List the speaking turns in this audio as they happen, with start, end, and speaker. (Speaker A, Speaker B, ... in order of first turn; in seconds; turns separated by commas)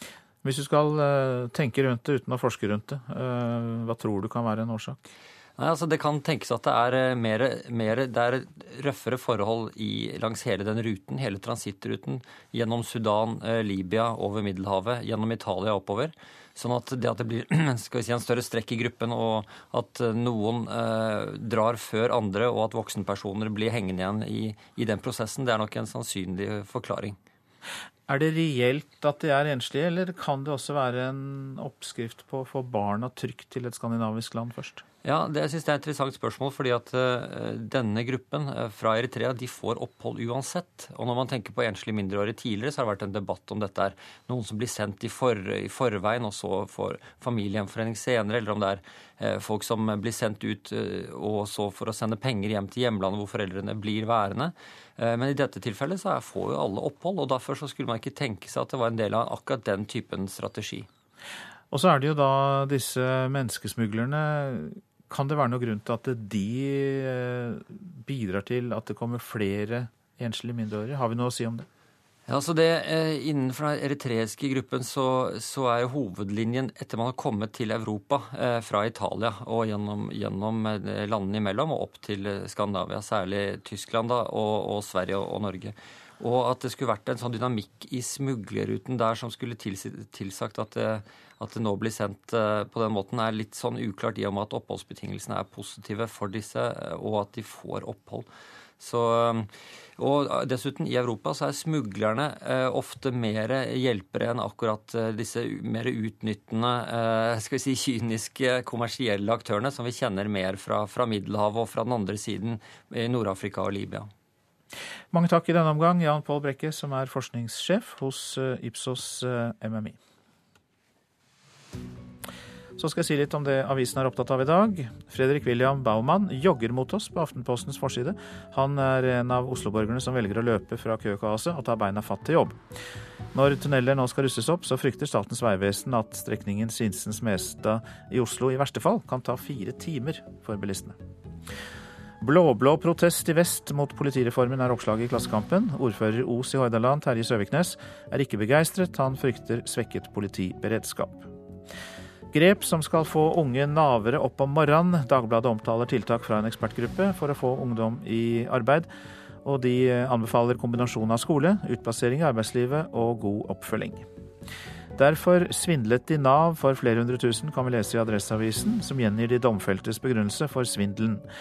Speaker A: 0.4-5.0, Speaker B: 5.6-27.2, Speaker A: 28.1-34.8, Speaker B: 35.0-60.9, Speaker A: 61.7-71.7, Speaker B: 72.3-98.3, Speaker B: 98.8-114.1, Speaker A: 115.1-120.0, Speaker A: 122.8-132.6, Speaker A: 133.3-141.0, Speaker A: 142.2-151.3, Speaker A: 152.3-158.9, Speaker A: 159.4-164.1, Speaker A: 164.9-171.2